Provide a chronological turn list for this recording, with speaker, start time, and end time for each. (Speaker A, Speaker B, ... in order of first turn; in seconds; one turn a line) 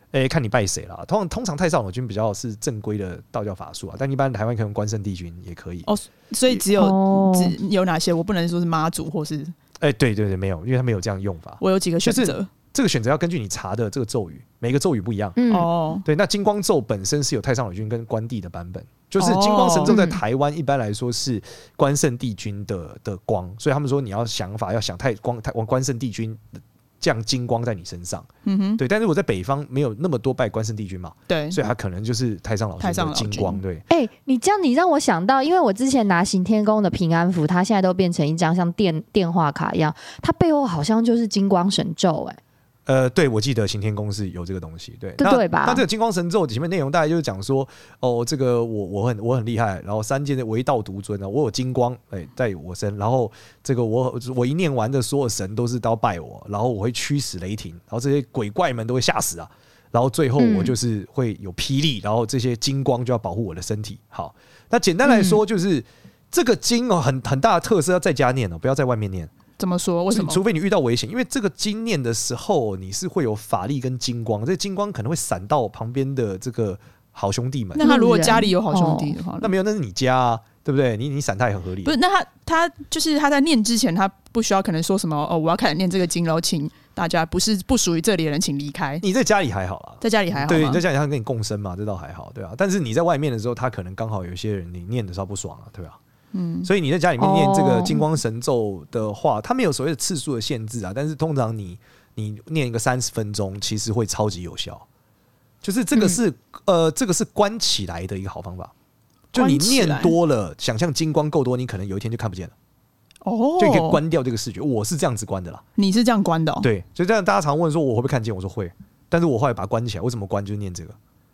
Speaker A: 0.1-5.9
Speaker B: 5.9-9.5
Speaker C: 6.8-7.5
Speaker A: 9.8-15.4
Speaker B: 11.6-12.5
Speaker C: 15.4-15.7
Speaker B: 15.5-16.1
Speaker A: 16.1-28.3
Speaker B: 19.2-20.0
Speaker C: 19.9-20.2
Speaker B: 28.4-28.8
Speaker A: 28.8-33.8
Speaker B: 31.3-31.6
Speaker B: 32.8-33.6
Speaker C: 33.9-42.4
Speaker A: 42.9-69.3
Speaker C: 45.2-45.8
Speaker C: 60.4-60.8
Speaker C: 65.1-65.4
Speaker B: 69.6-70.4
Speaker A: 70.1-77.9
Speaker B: 77.8-79.5
Speaker C: 77.8-79.2
Speaker A: 79.4-82.0
Speaker B: 81.8-89.0
Speaker A: 89.0-96.0
Speaker B: 90.0-90.8
Speaker B: 96.3-96.7
Speaker A: 96.7-104.9
Speaker C: 97.2-98.0
Speaker A: 105.6-108.7
Speaker A: 109.3-112.5
Speaker B: 109.3-110.2
Speaker B: 113.2-114.0
Speaker A: 113.6-115.6
Speaker B: 115.8-116.7
Speaker A: 116.6-121.0